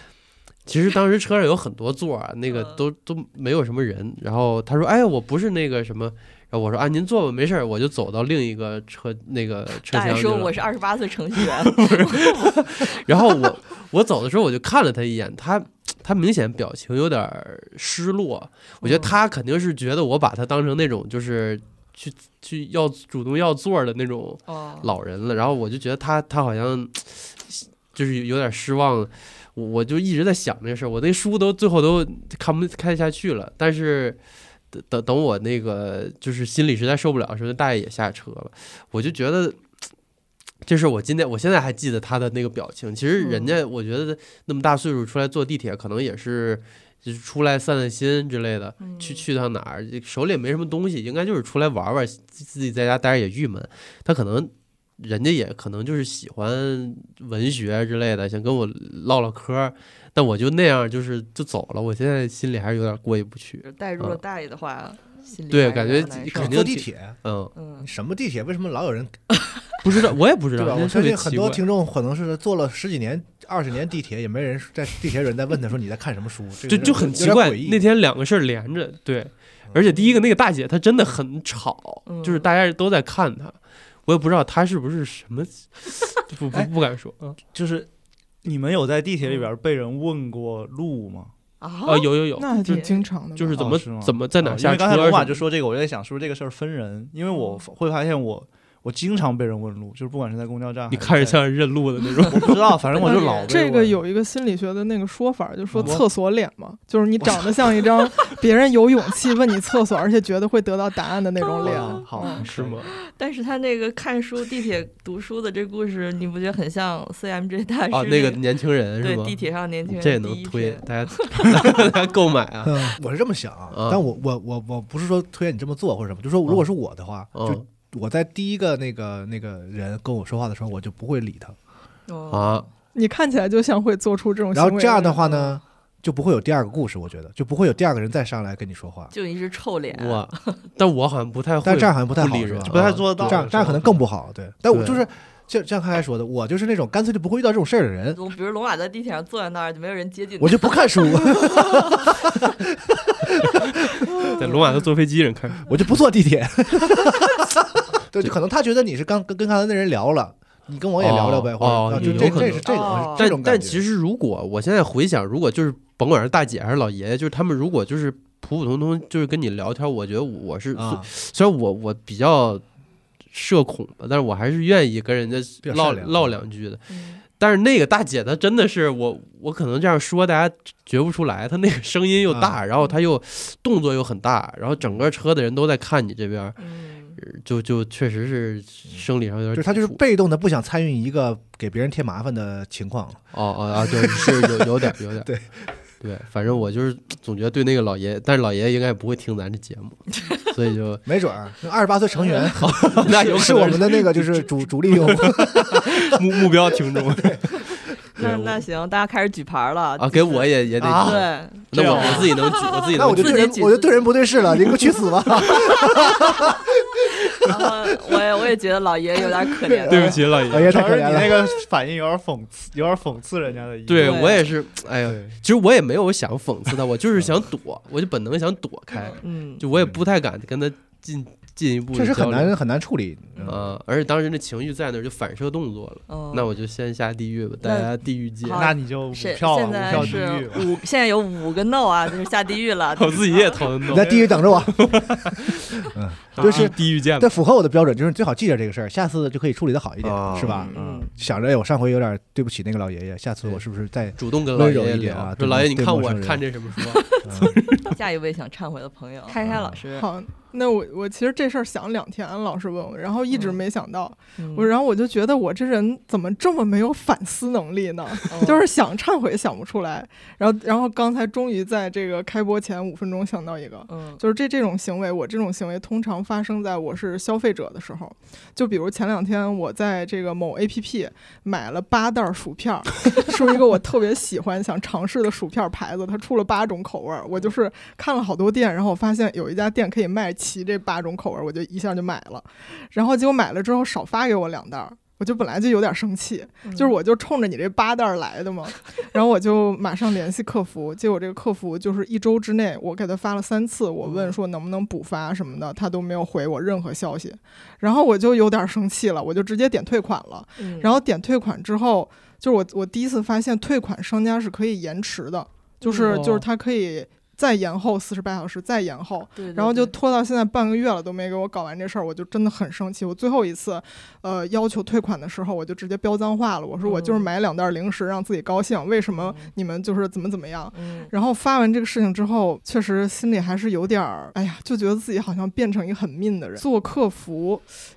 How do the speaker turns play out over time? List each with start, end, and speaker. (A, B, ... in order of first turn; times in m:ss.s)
0:00.6-0:10.6 A
0:02.5-0:02.8 B
0:09.8-0:12.6 B
0:11.4-0:34.2 A
0:18.8-0:19.1 B
0:24.5-0:24.9 B
0:34.7-0:39.8 A
0:40.6-1:04.2 A
0:43.2-0:43.6 B
0:48.8-0:49.2 B
1:03.6-1:06.5 B
1:05.5-1:07.5 A
1:06.3-1:07.2 C
1:07.5-1:07.9 B
1:07.8-1:09.2 C
1:09.8-1:11.6 A
1:10.5-1:17.8 C
1:16.7-1:27.4 A
1:22.0-1:22.4 B
1:27.4-1:27.9 D
1:28.4-1:31.3 D
1:29.2-1:29.5 B
1:31.6-1:33.0 B
1:31.8-1:32.8 A
1:32.4-1:33.6 E
1:33.3-1:35.4 A
1:33.5-1:41.4 D
1:37.3-1:37.6 B
1:40.9-1:43.0 A
1:42.3-1:44.0 D
1:42.9-1:43.5 B
1:43.0-1:52.4 E
1:45.7-1:46.0 D
1:45.8-1:46.0 A
1:51.6-1:52.9 D
1:51.7-1:58.4 B
1:52.4-1:52.8 A
1:57.9-2:03.0 A
1:59.0-2:01.8 B
2:02.6-2:11.6 C
2:03.7-2:04.0 A
2:07.3-2:07.6 A
2:12.1-2:12.7 B
2:12.3-2:12.7 A
2:12.9-2:15.6 E
2:14.5-2:19.1 C
2:19.1-2:20.6 B
2:19.9-2:24.0 A
2:21.6-2:28.2 C
2:22.6-2:23.9 D
2:24.7-2:25.0 A
2:28.1-2:31.9 B
2:30.4-2:34.1 C
2:34.4-2:35.6 A
2:35.7-2:43.8 C
2:41.0-2:52.6 A
2:42.2-2:43.4 B
2:50.7-2:51.1 C
2:53.3-2:56.8 A
2:55.6-2:56.4 C
2:56.9-2:57.2 B
2:57.4-3:06.6 A
3:02.3-3:02.6 C
3:06.6-3:07.2 B
3:07.2-3:10.0 A
3:09.5-3:13.3 C
3:13.3-3:15.3 A
3:13.8-3:15.7 C
3:16.0-3:21.0 A
3:21.0-3:25.9 C
3:22.6-3:27.4 A
3:27.1-3:27.6 C
3:28.2-3:28.6 A
3:28.2-3:34.5 B
3:30.0-3:33.5 A
3:30.8-3:31.2 C
3:31.7-3:32.3 D
3:32.9-3:36.6 C
3:35.5-3:35.8 B
3:37.4-3:40.2 B
3:39.6-3:41.6 C
3:39.9-3:40.7 A
3:40.5-3:44.4 D
3:43.9-3:52.5 A
3:44.0-3:44.5 B
3:45.1-3:45.4 D
3:49.2-3:49.6 B
3:49.7-3:50.0 C
3:51.9-3:53.7 C
3:53.4-3:58.6 A
3:56.1-3:56.5 B
3:57.6-3:57.9 B
3:58.4-4:03.7 B
3:58.5-4:00.7 D
3:59.9-4:00.2 A
4:03.0-4:05.5 A
4:03.9-4:05.0 C
4:05.9-4:16.4 C
4:06.4-4:06.7 B
4:06.4-4:07.3 A
4:10.0-4:10.6 A
4:10.4-4:10.8 E
4:10.7-4:11.1 B
4:14.2-4:17.9 A
4:16.9-4:17.2 B
4:17.2-4:17.6 C
4:17.8-4:20.1 B
4:19.4-4:19.8 C
4:19.4-5:37.7 E
4:23.3-4:23.6 B
4:24.4-4:24.7 B
4:28.3-4:28.6 B
4:33.9-4:34.2 B
4:56.6-4:57.0 B
5:04.0-5:04.4 B
5:10.6-5:11.0 B
5:15.8-5:16.4 B
5:19.4-5:19.9 B
5:26.8-5:27.3 B
5:29.1-5:29.5 B
5:30.7-5:31.1 B